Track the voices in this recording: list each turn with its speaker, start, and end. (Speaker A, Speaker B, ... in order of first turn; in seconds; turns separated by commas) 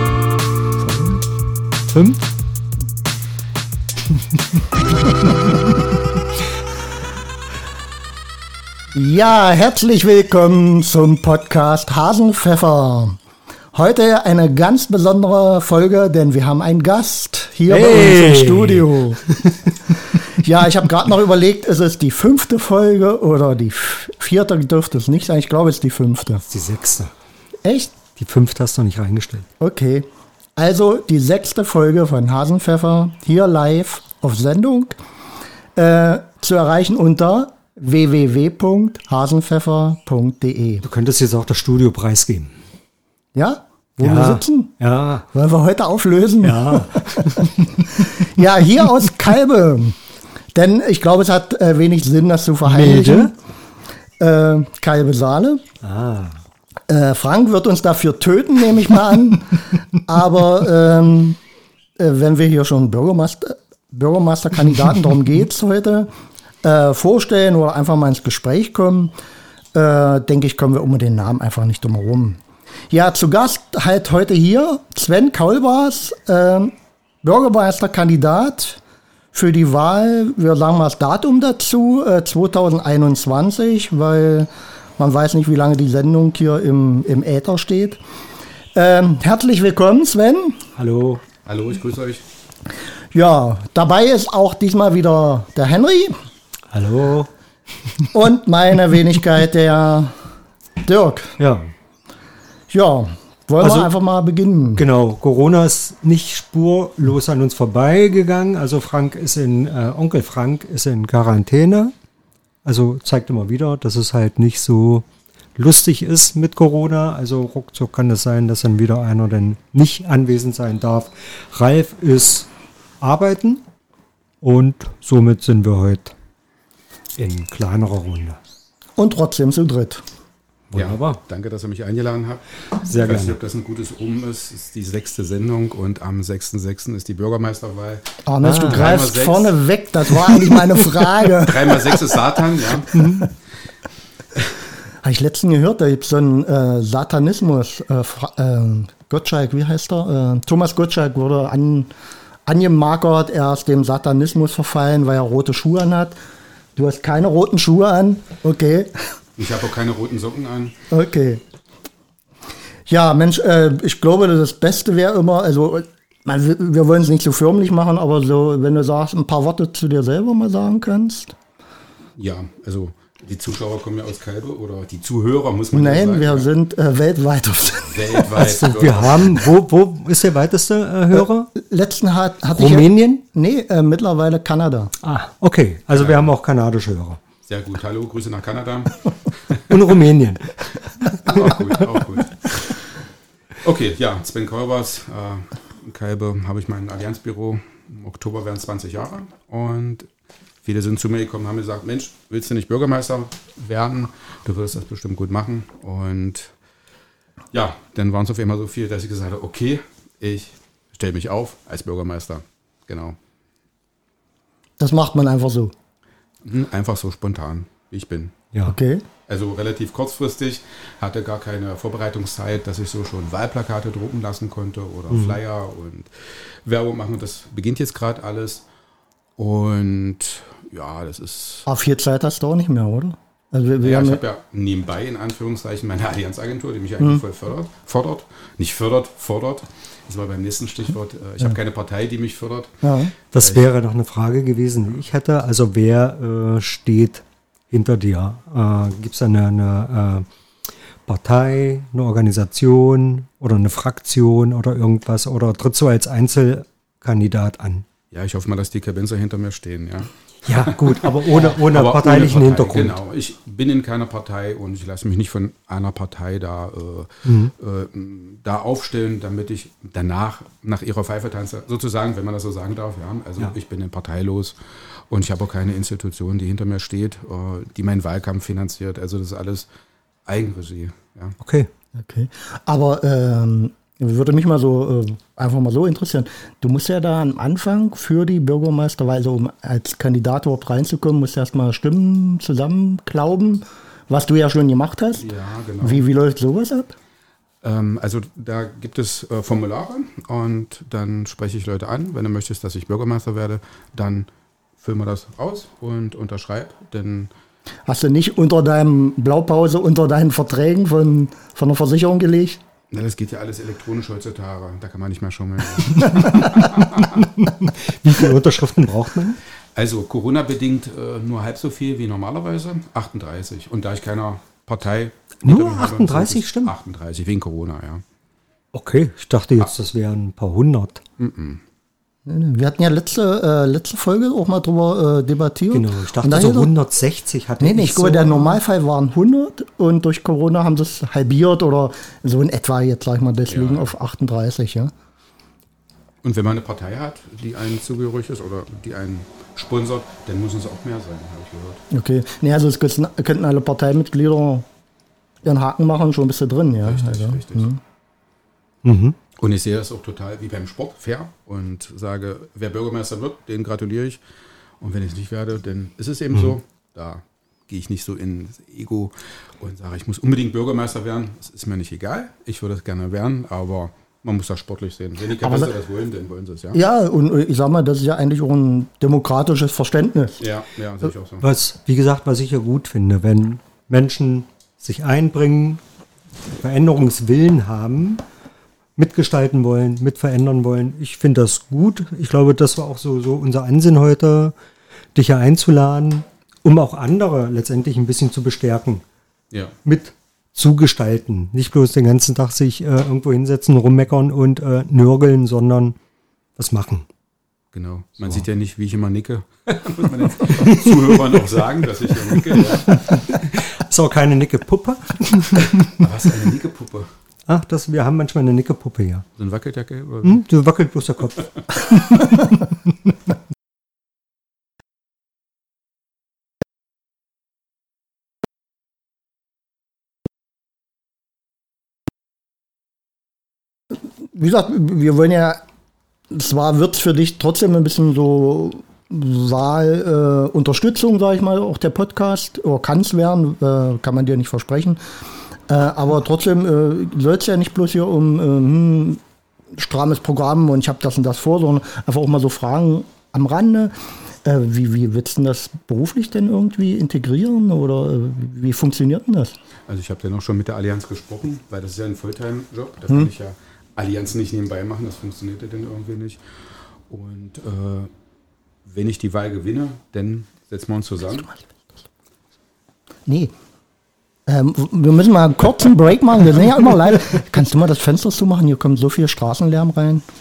Speaker A: 0.8-1.2, Speaker A: 1.9-2.2, Speaker B: 8.9-13.2, Speaker B: 13.7-19.4, Speaker A: 17.7-19.7, Speaker B: 20.1-26.4, Speaker A: 26.5-27.1, Speaker B: 27.6-28.0, Speaker A: 28.1-29.5, Speaker B: 29.6-35.0, Speaker B: 35.8-40.8, Speaker A: 40.8-42.6, Speaker B: 43.3-44.7, Speaker A: 44.0-45.3, Speaker B: 45.3-50.0, Speaker A: 46.4-47.9, Speaker B: 50.5-53.3, Speaker A: 52.7-53.3, Speaker B: 54.2-55.6, Speaker A: 55.8-56.4, Speaker B: 56.9-61.4, Speaker B: 62.0-66.1, Speaker B: 66.6-69.1, Speaker B: 69.7-78.8, Speaker B: 79.3-88.0, Speaker B: 88.7-90.6, Speaker A: 90.8-91.2, Speaker C: 91.5-92.2, Speaker B: 93.1-96.2, Speaker A: 96.7-97.3, Speaker B: 98.1-100.2, Speaker B: 100.8-101.4, Speaker A: 101.4-101.7, Speaker B: 102.7-104.8, Speaker A: 103.6-103.9, Speaker A: 104.8-111.9, Speaker A: 112.6-122.5, Speaker A: 123.0-123.6, Speaker A: 124.4-126.2, Speaker A: 127.2-128.4, Speaker B: 129.0-130.1, Speaker A: 130.7-131.2, Speaker C: 130.7-139.6, Speaker A: 132.8-133.4, Speaker B: 138.2-143.3, Speaker A: 138.4-139.0, Speaker C: 141.4-143.0, Speaker A: 142.9-143.3, Speaker B: 145.0-151.9, Speaker B: 152.5-156.2, Speaker B: 156.8-159.1, Speaker C: 159.4-160.8, Speaker B: 160.9-161.4, Speaker B: 162.9-171.3, Speaker C: 172.2-176.5, Speaker B: 175.7-178.4, Speaker C: 177.8-179.5, Speaker A: 178.3-181.5, Speaker B: 181.5-184.9, Speaker A: 182.5-183.2, Speaker A: 185.0-187.2, Speaker C: 185.9-186.2, Speaker C: 187.5-189.9, Speaker A: 189.7-192.0, Speaker C: 191.2-192.8, Speaker C: 193.6-200.1, Speaker C: 200.6-206.5, Speaker C: 207.5-213.2, Speaker B: 214.8-215.7, Speaker C: 216.4-218.3, Speaker B: 218.7-219.1, Speaker C: 219.3-228.7, Speaker A: 225.1-225.4, Speaker C: 229.4-231.7, Speaker B: 231.7-234.2, Speaker C: 233.8-242.8, Speaker B: 242.8-243.1, Speaker A: 243.3-250.2, Speaker A: 251.1-257.9, Speaker C: 258.1-274.6, Speaker A: 260.4-263.0, Speaker A: 267.2-267.5, Speaker C: 275.1-279.7, Speaker C: 280.2-281.4, Speaker A: 281.4-281.7, Speaker B: 281.9-295.3, Speaker C: 295.2-296.0, Speaker B: 295.8-296.9, Speaker C: 297.6-304.3, Speaker C: 304.8-307.3, Speaker B: 307.9-312.6, Speaker C: 312.9-317.3, Speaker A: 317.0-319.4, Speaker C: 319.8-328.0, Speaker A: 325.4-326.7, Speaker A: 328.7-331.0, Speaker C: 331.2-331.6, Speaker B: 332.2-336.7, Speaker A: 335.7-338.6, Speaker B: 337.6-344.9, Speaker C: 343.5-343.9, Speaker C: 346.2-351.8, Speaker B: 351.9-354.7, Speaker B: 355.4-357.8, Speaker C: 356.8-357.7, Speaker A: 358.8-359.2, Speaker C: 359.4-364.2, Speaker C: 364.8-376.8, Speaker B: 375.4-375.7, Speaker B: 376.7-380.4, Speaker C: 380.4-381.4, Speaker A: 381.4-385.8, Speaker A: 386.5-388.2, Speaker A: 388.9-394.5, Speaker A: 395.1-399.0, Speaker A: 399.8-405.9, Speaker A: 406.6-407.1, Speaker C: 407.7-413.0, Speaker A: 410.5-411.6, Speaker A: 412.3-416.0, Speaker C: 415.8-417.1, Speaker A: 417.5-419.2, Speaker C: 419.4-420.4, Speaker A: 420.2-421.5, Speaker B: 434.2-435.6, Speaker B: 436.3-445.0, Speaker B: 445.7-449.2, Speaker B: 449.7-459.6, Speaker C: 459.9-466.4, Speaker C: 467.1-468.1, Speaker C: 468.9-471.5, Speaker B: 471.5-471.8, Speaker B: 473.2-473.5, Speaker B: 474.4-480.2